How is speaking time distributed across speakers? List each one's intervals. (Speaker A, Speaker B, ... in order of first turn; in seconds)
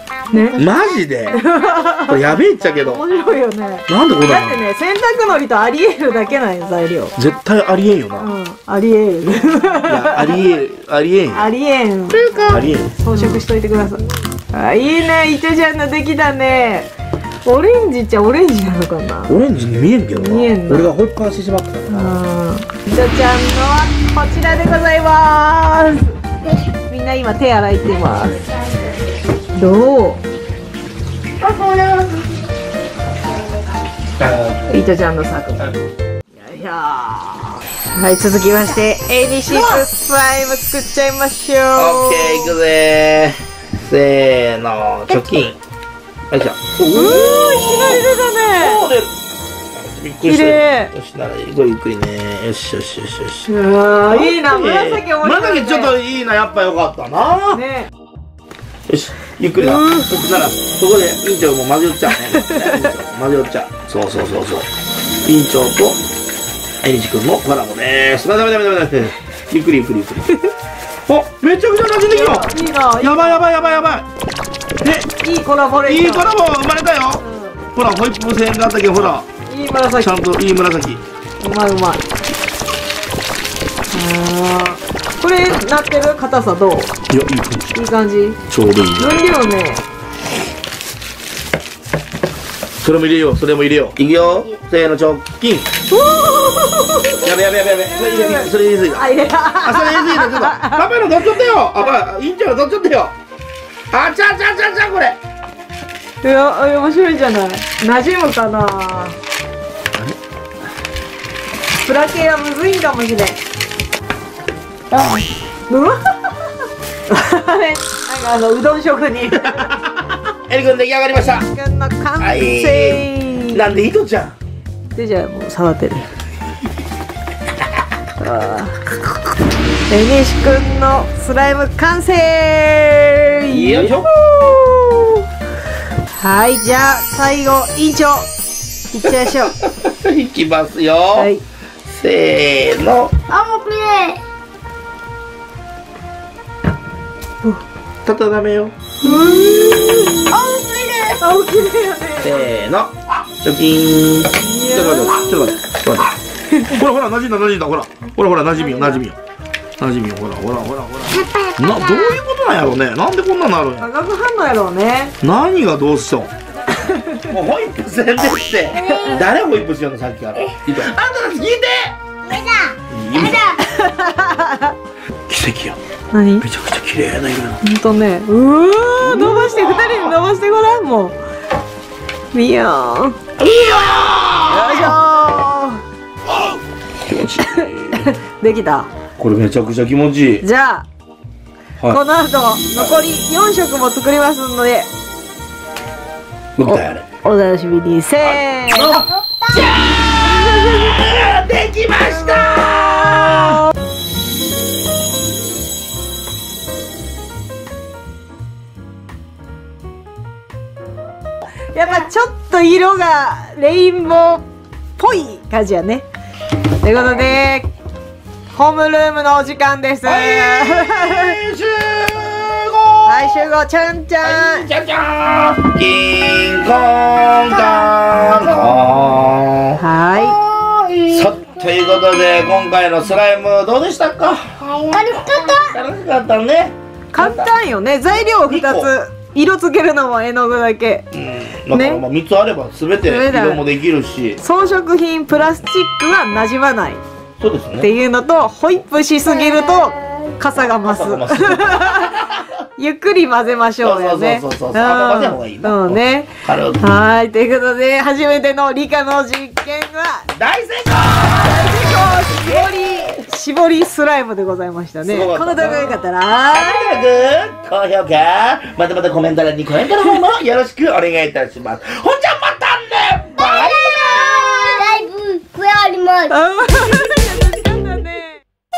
Speaker A: 0.3-0.6, 1.3-2.3, 2.8-7.2, 8.2-10.6, 11.3-16.9, 17.4-19.4, 20.1-20.9, 21.9-26.2, 26.9-28.5, 29.5-30.2, 34.7-35.7, 36.4-42.5, 46.9-48.8, 50.2-50.9, 53.5-55.9, 57.5-57.9, 59.6-60.2, 62.2-62.9, 72.1-73.4, 75.2-76.3, 77.2-77.6, 79.5-80.1, 81.4-82.0, 83.9-86.9, 87.8-88.4, 89.0-89.8, 95.9-100.8, 106.2-109.2, 111.8-113.4, 115.7-119.8, 121.2-123.8, 125.0-126.1, 128.2-129.1, 129.9-135.2, 136.2-138.3, 138.9-139.6, 141.2-141.4, 149.0-150.0, 151.2-152.5, 154.4-155.6, 156.5-156.8, 158.6-159.0, 163.8-165.2, 166.7-167.3, 168.8-169.2, 173.6-174.8, 176.1-176.5, 177.6-181.2, 182.3-183.2, 184.5-185.8, 187.5-188.9, 190.4-190.9, 191.9-194.9, 196.7-199.1, 211.7-214.5, 215.0-216.1, 216.8-217.7, 218.5-221.4, 223.1-224.7, 229.8-230.4, 237.1-241.1, 241.7-242.0, 243.0-243.7, 244.4-247.0, 247.8-260.3, 261.4-267.0, 276.3-278.4
Speaker B: 0.5-1.4, 2.1-3.0, 3.9-4.6, 7.2-8.3, 9.8-11.5, 12.4-13.4, 19.3-22.2, 34.2-34.8, 41.8-45.6, 46.3-49.1, 49.9-53.5, 54.1-57.6, 58.9-64.7, 65.2-66.0, 66.8-70.4, 71.1-74.1, 74.8-75.1, 75.9-79.3, 80.0-81.0, 87.1-87.8, 88.5-89.2, 92.8-95.7, 97.2-103.1, 103.9-105.2, 119.3-121.5, 122.2-124.4, 133.5-134.1, 139.6-141.3, 141.9-143.2, 148.1-148.8, 149.8-150.0, 152.2-156.2, 156.7-159.2, 159.8-163.9, 165.2-166.3, 167.3-172.0, 172.9-173.6, 175.3-175.8, 176.4-177.6, 179.0-180.2, 183.4-185.0, 186.3-188.1, 189.2-190.4, 192.7-193.0, 196.6-197.1, 198.2-203.7, 220.1-223.5, 224.2-237.5, 238.5-238.9, 241.1-244.4, 247.4-247.9, 250.8-252.5, 253.8-257.0, 260.4-263.2, 265.1-266.0, 266.5-274.6
Speaker C: 31.4-32.2, 114.9-115.3, 143.3-144.2, 150.3-151.2, 161.1-162.2, 168.7-169.3, 172.3-173.6, 199.2-199.7, 234.6-235.8, 249.5-250.3, 273.4-276.3